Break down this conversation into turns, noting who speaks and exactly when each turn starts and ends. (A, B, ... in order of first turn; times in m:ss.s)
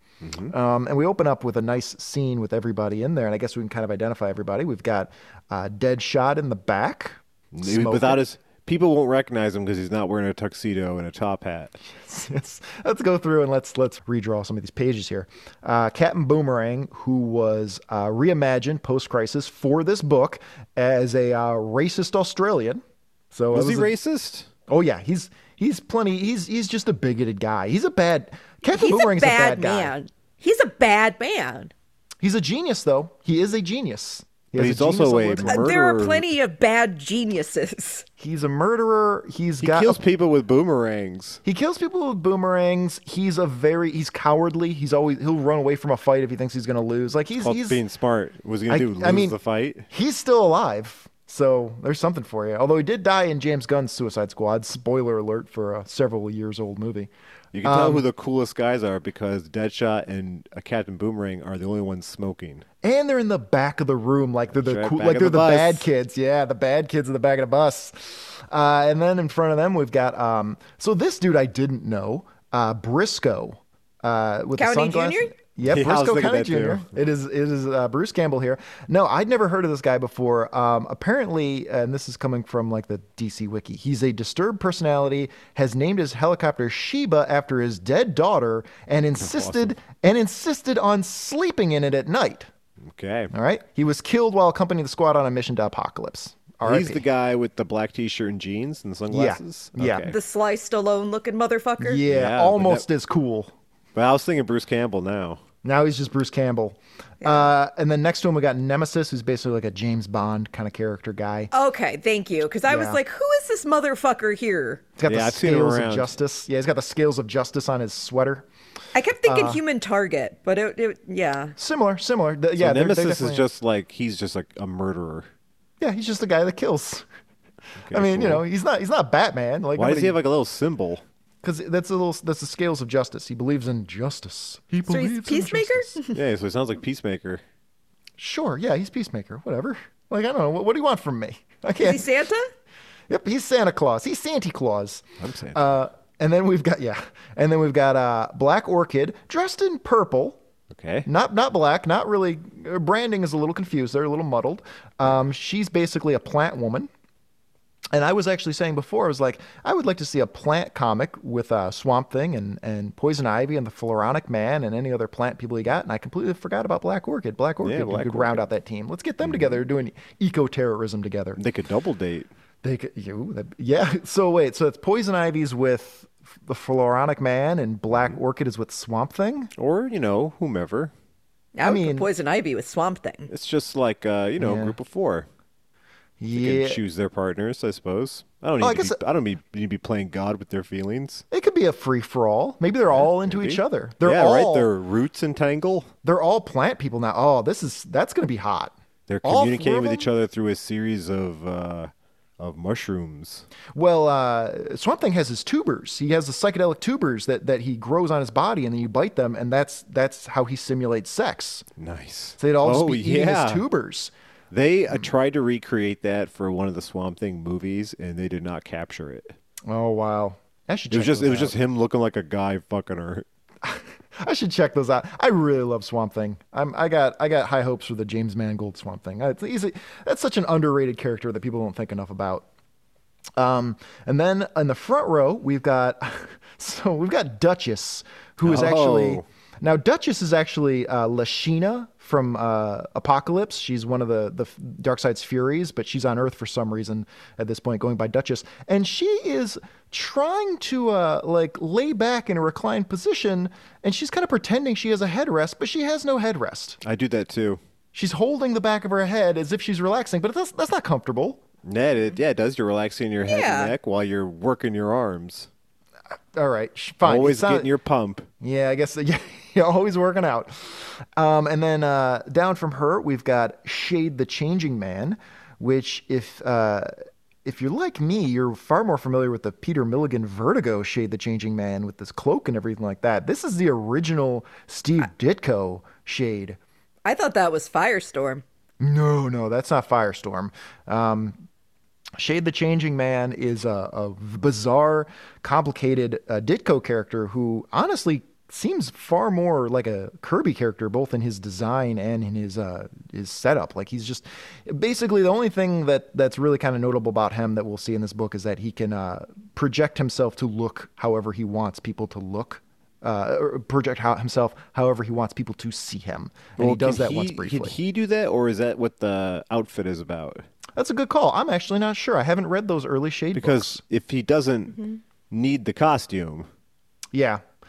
0:00.2-0:00.5 A
0:00.5-0:08.2 B
0:07.5-0:11.8 A
0:11.9-0:23.9 B
0:23.5-0:24.5 A
0:24.7-0:29.9 B
0:28.7-0:31.7 C
0:32.2-0:35.7 B
0:34.5-0:36.3 A
0:35.4-0:38.0 C
0:38.2-0:40.0 B
0:39.6-0:41.4 A
0:41.4-0:47.8 B
0:47.4-0:49.9 A
0:48.7-0:49.4 B
0:49.9-0:57.1 B
0:57.5-1:02.6 A
0:57.6-0:58.0 B
1:02.8-1:32.5 B
1:04.5-1:05.9 A
1:14.6-1:15.3 C
1:15.6-1:16.9 A
1:29.2-1:29.7 A
1:32.8-1:33.3 A
1:33.3-1:37.0 B
1:36.6-1:40.2 A
1:39.1-1:40.1 B
1:40.1-1:42.0 C
1:41.8-1:43.5 B
1:42.1-1:42.8 A
1:43.9-1:45.4 A
1:45.6-1:51.5 B
1:47.2-1:47.5 C
1:51.5-1:54.9 C
1:52.7-1:53.0 B
1:55.0-1:58.5 B
1:55.0-1:56.1 A
1:58.9-2:01.5 C
1:59.2-1:59.6 B
2:01.6-2:03.4 B
2:02.6-2:05.3 A
2:05.8-2:07.0 B
2:07.8-2:08.4 A
2:07.9-2:10.2 B
2:09.8-2:11.0 A
2:11.4-2:16.0 B
2:14.9-2:16.2 C
2:16.1-2:17.4 A
2:18.2-2:22.1 B
2:21.8-2:22.4 C
2:23.1-2:30.4 B
2:25.2-2:25.7 A
2:30.7-2:31.1 A
2:31.0-2:36.9 B
2:37.9-2:51.4 B
2:47.6-2:48.4 A
2:51.4-2:52.3 A
2:52.6-2:59.5 B
2:59.6-3:00.9 A
3:01.5-3:03.3 C
3:01.6-3:02.1 B
3:03.3-3:05.3 A
3:04.4-3:04.8 B
3:06.2-3:06.8 B
3:06.3-3:11.2 A
3:08.6-3:09.0 B
3:11.3-3:14.7 B
3:12.9-3:15.9 A
3:16.0-3:20.1 B
3:19.1-3:23.4 A
3:23.7-3:31.7 B
3:31.8-3:33.6 A
3:32.4-3:34.1 B
3:34.5-3:39.3 A
3:39.7-3:41.5 B
3:40.9-3:43.2 A
3:43.6-3:52.4 B
3:53.4-4:16.8 B
3:58.4-3:59.2 A
4:16.8-4:17.6 A
4:17.9-4:21.4 B
4:21.6-4:25.5 A
4:23.2-4:23.7 C
4:26.3-4:27.7 B
4:27.0-4:28.3 A
4:28.4-4:36.9 B
4:37.4-4:46.6 B
4:47.0-4:48.4 C
4:48.8-4:51.4 B
4:52.2-5:17.7 B
5:16.6-5:20.4 A
5:20.8-5:23.8 B
5:23.3-5:26.5 A
5:27.1-5:27.4 B